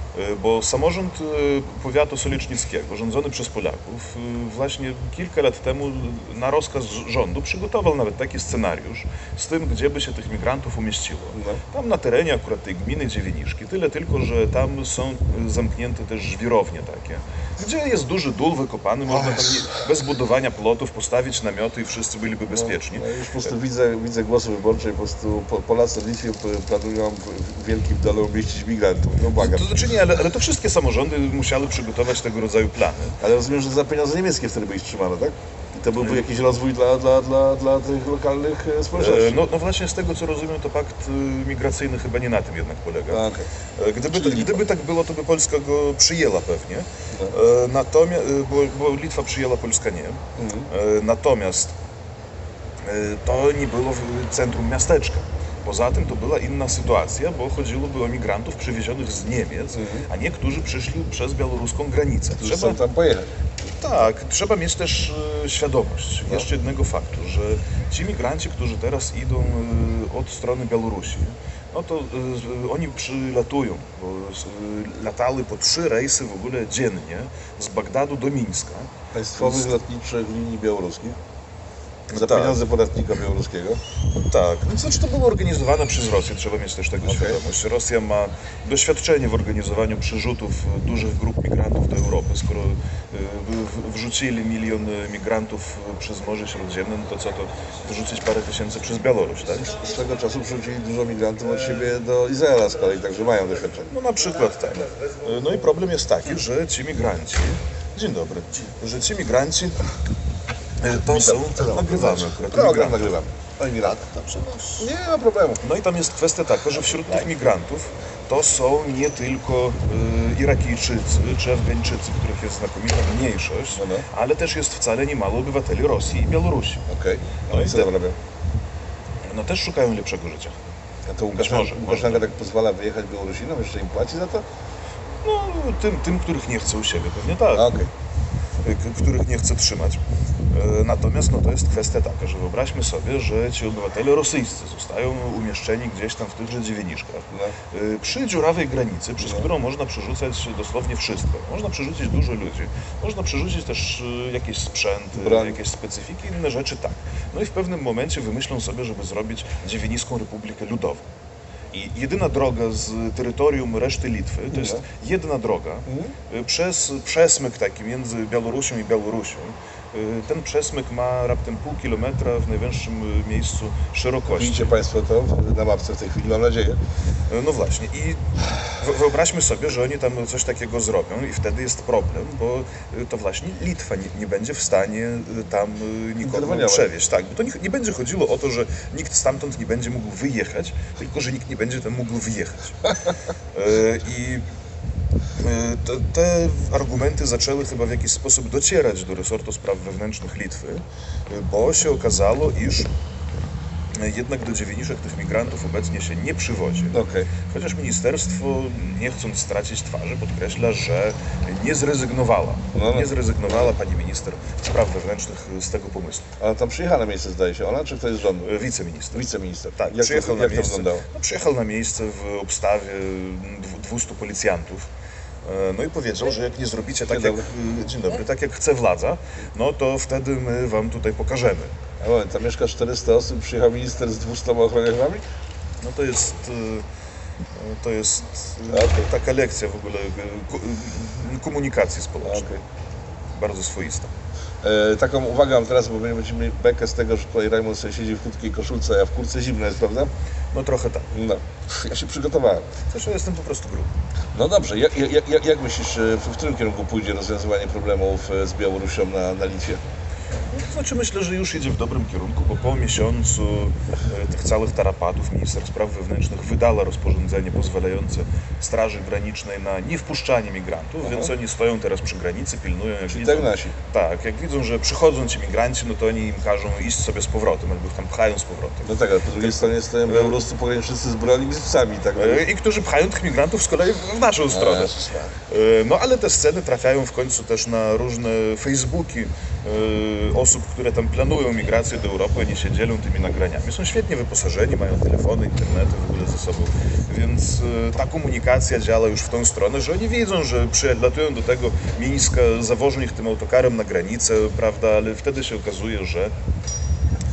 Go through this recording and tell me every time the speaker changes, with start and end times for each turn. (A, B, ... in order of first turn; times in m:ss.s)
0:00.1-0:23.1 A
0:11.3-0:11.6 B
0:22.5-0:29.7 B
0:29.4-0:33.2 A
0:33.2-0:39.4 B
0:36.0-0:36.3 A
0:39.0-0:43.2 A
0:43.1-0:43.5 B
0:43.8-0:51.7 A
0:44.1-0:44.6 B
0:50.4-0:50.7 B
0:52.8-1:02.8 A
0:59.7-1:00.1 B
1:02.4-1:03.3 B
1:03.7-1:19.8 A
1:19.1-1:21.2 B
1:22.1-1:23.8 B
1:22.1-1:22.6 A
1:24.1-1:39.7 A
1:27.0-1:27.4 B
1:39.6-1:43.9 B
1:43.9-1:49.8 A
1:50.8-1:53.1 A
1:51.1-1:54.0 B
1:53.8-1:54.9 A
1:54.8-1:55.6 B
1:55.6-2:06.8 A
2:03.7-2:04.0 B
2:06.9-2:08.2 B
2:07.5-2:07.9 A
2:09.2-2:10.6 A
2:11.0-2:14.4 B
2:11.3-2:12.3 A
2:15.2-2:17.7 A
2:17.5-2:17.9 B
2:18.6-2:41.0 A
2:29.2-2:29.4 B
2:35.1-2:35.6 B
2:41.7-2:54.7 A
2:44.5-2:44.8 B
2:45.9-2:46.1 B
2:54.3-2:56.8 B
2:57.3-3:12.8 A
3:06.2-3:06.8 B
3:13.5-3:14.4 A
3:15.4-3:22.9 A
3:23.9-3:36.3 A
3:26.9-3:27.3 B
3:32.7-3:33.1 B
3:36.4-3:38.5 B
3:38.4-3:44.9 A
3:39.1-3:41.0 B
3:45.4-3:51.7 A
3:47.1-3:47.4 B
3:52.0-3:55.2 B
3:55.8-3:56.8 A
3:57.5-4:02.5 A
3:58.7-3:59.0 B
4:02.2-4:02.6 B
4:03.3-4:04.1 A
4:04.6-4:10.1 B
4:10.5-4:11.1 A
4:11.1-4:12.7 B
4:12.9-4:13.9 A
4:14.3-4:19.8 B
4:20.5-4:40.4 A
4:31.0-4:31.3 B
4:33.1-4:33.7 B
4:38.8-4:42.4 B
4:42.2-4:44.9 A
4:44.5-4:45.4 B
4:45.5-5:06.3 A